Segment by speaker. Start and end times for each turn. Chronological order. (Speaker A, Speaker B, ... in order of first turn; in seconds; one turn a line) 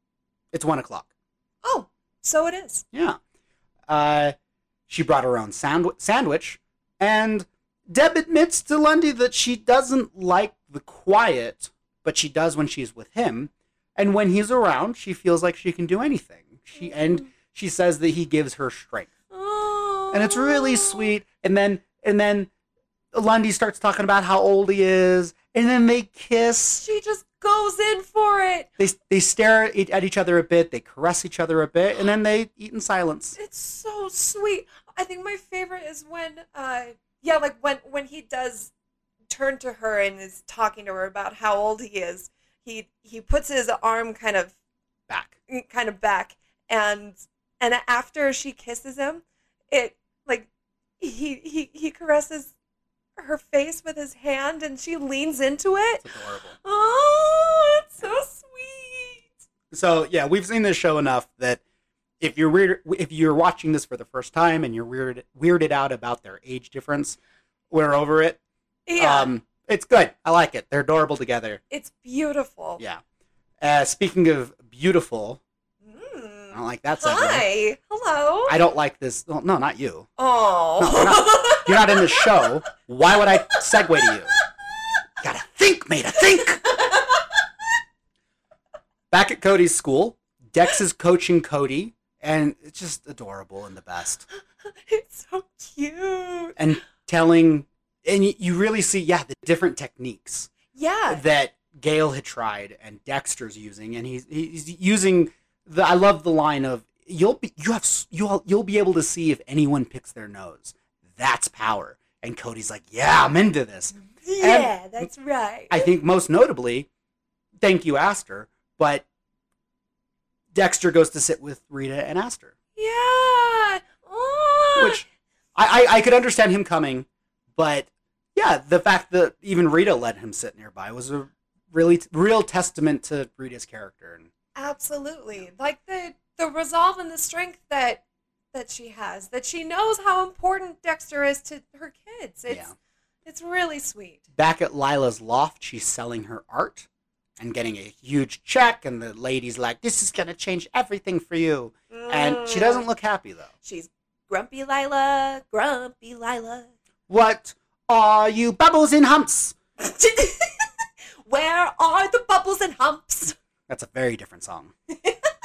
Speaker A: 0.5-1.1
Speaker B: 1.6-2.8
Speaker A: 2.9-3.2
Speaker A: 3.9-4.3
Speaker A: 4.9-19.1
Speaker B: 16.8-17.2
Speaker B: 19.3-21.1
Speaker A: 20.1-22.5
Speaker A: 23.1-26.8
Speaker B: 26.8-28.7
Speaker A: 28.8-33.4
Speaker B: 33.4-38.7
Speaker B: 39.3-44.5
Speaker A: 45.1-45.3
Speaker B: 45.5-52.5
Speaker B: 53.2-56.0
Speaker A: 56.0-56.5
Speaker B: 56.6-59.3
Speaker A: 59.7-61.6
Speaker A: 62.2-67.2
Speaker A: 67.7-68.4
Speaker B: 68.9-69.3
Speaker A: 69.0-71.6
Speaker B: 71.7-72.8
Speaker A: 73.6-75.4
Speaker B: 75.8-78.5
Speaker A: 76.5-77.4
Speaker A: 78.5-80.1
Speaker B: 80.2-82.3
Speaker A: 80.8-84.3
Speaker A: 85.2-86.6
Speaker B: 86.4-87.3
Speaker A: 89.1-94.2
Speaker B: 94.6-96.6
Speaker A: 96.5-100.5
Speaker B: 100.7-101.2
Speaker A: 101.1-115.1
Speaker B: 114.2-115.9
Speaker A: 115.7-116.9
Speaker A: 117.6-119.0
Speaker A: 120.5-122.5
Speaker B: 122.8-125.0
Speaker A: 124.8-125.0
Speaker A: 125.5-134.3
Speaker B: 134.6-142.7
Speaker B: 143.2-144.2
Speaker A: 144.3-146.9
Speaker A: 147.4-153.5
Speaker B: 151.9-152.9
Speaker B: 153.6-156.7
Speaker A: 157.1-159.6
Speaker B: 159.8-160.7
Speaker B: 161.2-163.3
Speaker A: 163.7-164.7